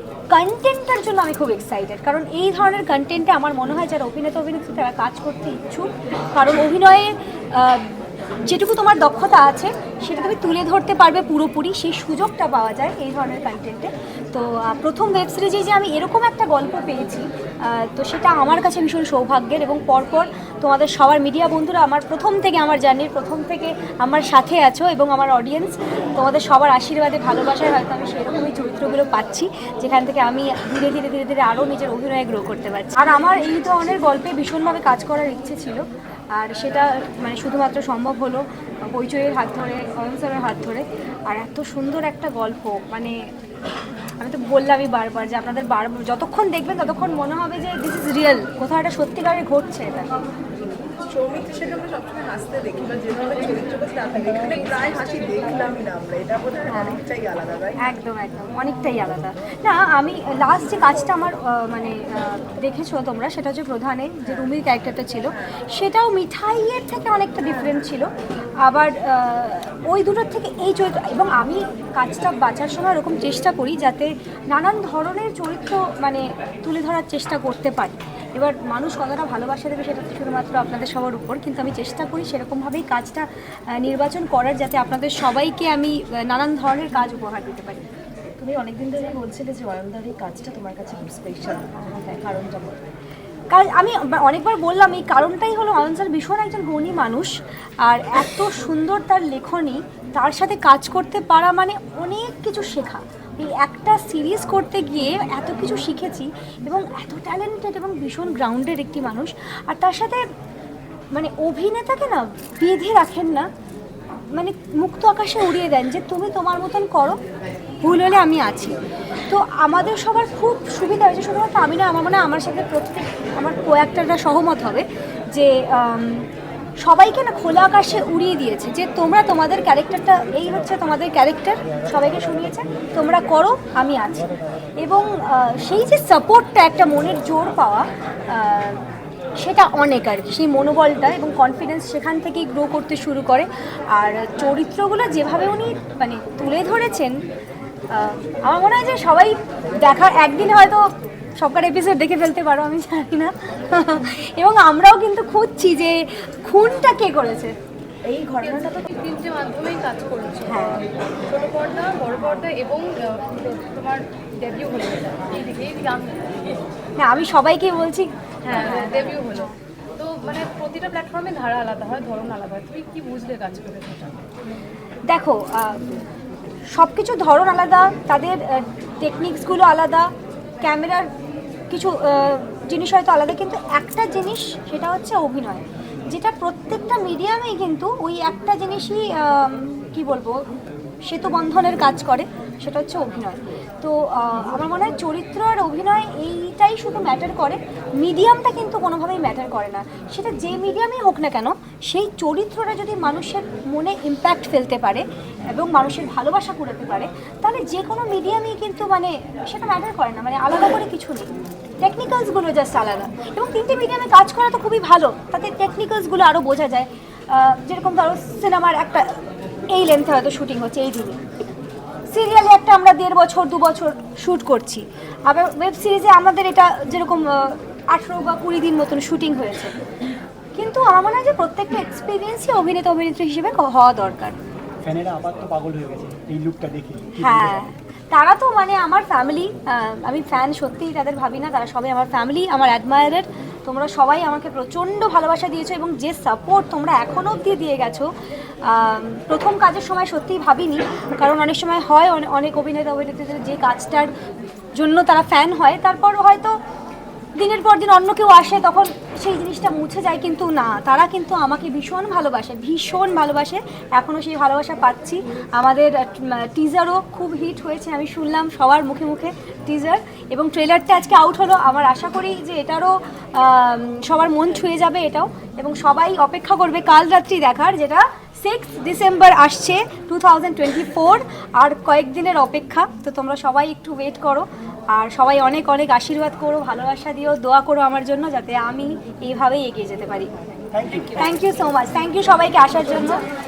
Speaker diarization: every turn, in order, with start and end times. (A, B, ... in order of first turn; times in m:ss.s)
0:00.3-0:35.8 A
0:36.3-0:43.2 A
0:44.2-0:50.1 A
0:51.0-0:57.8 B
0:56.7-0:57.0 A
0:57.8-1:08.1 A
1:08.6-1:27.8 A
1:28.4-1:32.8 C
1:33.5-1:37.3 A
1:37.8-1:50.2 A
1:51.1-1:53.5 A
1:54.3-1:57.2 A
1:57.8-1:58.7 A
1:59.3-2:06.3 A
2:06.8-2:18.8 A
2:19.4-2:27.2 A
2:27.9-2:30.9 A
2:31.4-2:37.5 A
2:38.1-2:38.8 C
2:38.4-2:46.4 D
2:40.4-2:40.8 A
2:47.0-2:49.3 A
2:48.4-2:54.2 D
2:55.1-2:55.8 A
2:56.7-3:00.1 A
3:00.6-3:01.1 A
3:01.7-3:10.4 A
3:11.0-3:31.3 A
3:31.8-3:39.2 A
3:39.7-3:41.2 A
3:42.1-3:49.7 A
3:50.6-3:54.4 A
3:54.8-3:57.6 E
3:57.2-4:08.1 A
4:08.6-4:14.1 A
4:14.8-4:16.6 A
4:17.4-4:50.3 A
4:50.7-4:51.4 E
4:51.1-4:53.2 A